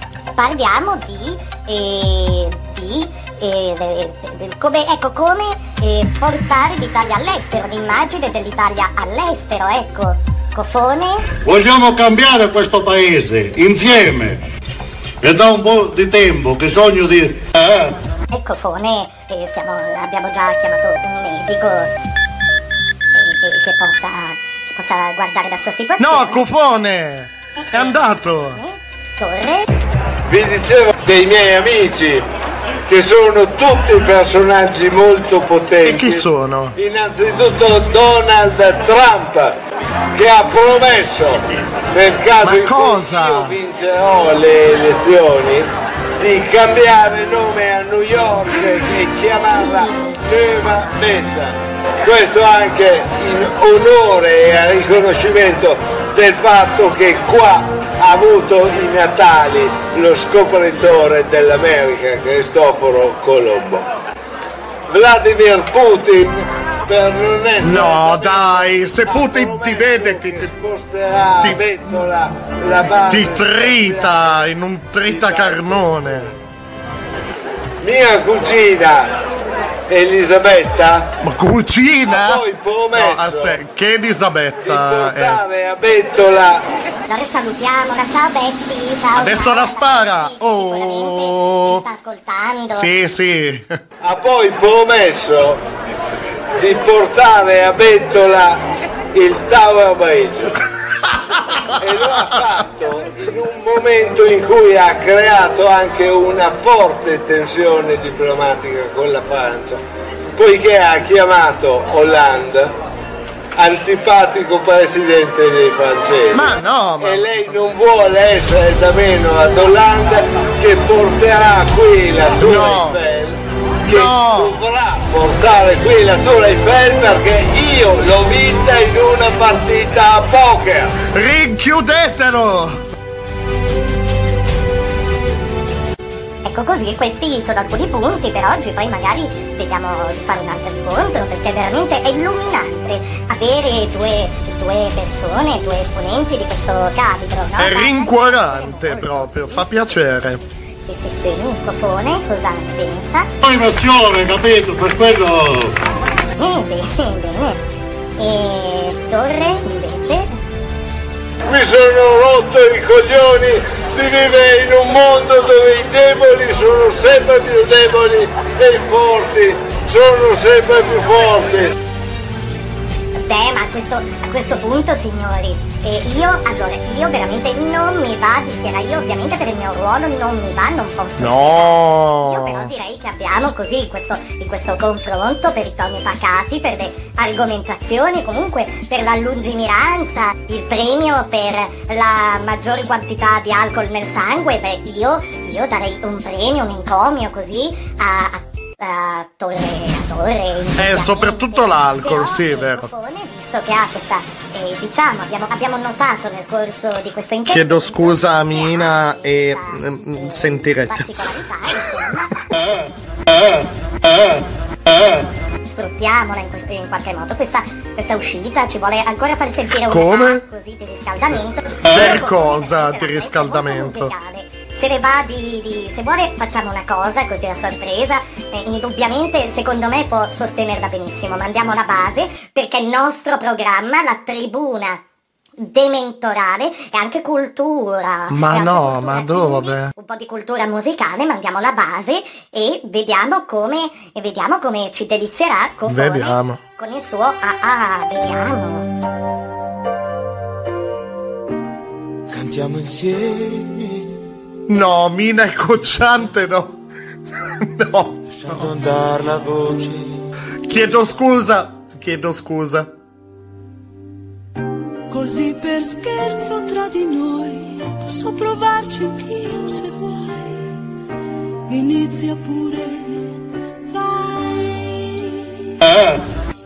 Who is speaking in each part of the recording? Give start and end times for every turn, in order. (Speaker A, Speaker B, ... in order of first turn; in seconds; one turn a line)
Speaker A: 0.3-11.2
Speaker B: 11.4-14.4
Speaker B: 15.2-17.9
Speaker A: 18.3-21.9
Speaker A: 23.1-26.4
Speaker C: 26.0-28.6
Speaker A: 27.6-29.6
Speaker D: 30.3-32.2
Speaker D: 32.9-39.5
Speaker C: 35.8-36.7
Speaker D: 40.1-45.7
Speaker C: 42.4-43.6
Speaker D: 46.2-63.8
Speaker D: 64.9-74.3
Speaker C: 67.6-70.5
Speaker C: 71.4-71.7
Speaker C: 73.1-76.3
Speaker D: 75.0-75.7
Speaker D: 77.8-79.1
Speaker D: 79.9-81.1
Speaker C: 81.2-85.4
Speaker D: 82.1-83.6
Speaker D: 84.6-86.6
Speaker A: 87.1-92.9
Speaker C: 89.2-91.8
Speaker C: 92.7-93.7
Speaker D: 94.0-95.6
Speaker D: 96.6-98.6
Speaker D: 99.1-100.5
Speaker D: 101.8-109.8
Speaker D: 110.3-112.7
Speaker D: 113.5-130.9
Speaker C: 116.3-117.7
Speaker C: 122.4-123.0
Speaker C: 123.8-124.5
Speaker C: 131.1-132.8
Speaker A: 136.4-150.0
Speaker C: 147.6-150.4
Speaker A: 150.8-153.3
Speaker B: 153.4-155.7
Speaker A: 156.4-157.6
Speaker A: 158.2-160.3
Speaker D: 161.4-171.7
Speaker A: 173.2-212.3
Speaker C: 181.2-182.7
Speaker C: 200.8-202.9
Speaker C: 207.5-212.1
Speaker A: 215.7-235.0
Speaker C: 219.8-220.4
Speaker C: 221.9-224.1
Speaker A: 235.6-248.9
Speaker C: 238.3-239.9
Speaker C: 245.9-246.6
Speaker E: 252.3-254.1
Speaker C: 254.7-256.8
Speaker C: 257.4-258.6
Speaker E: 258.4-260.2
Speaker C: 260.6-262.9
Speaker F: 265.1-270.8
Speaker F: 271.7-273.3
Speaker F: 273.9-275.4
Speaker B: 275.9-276.1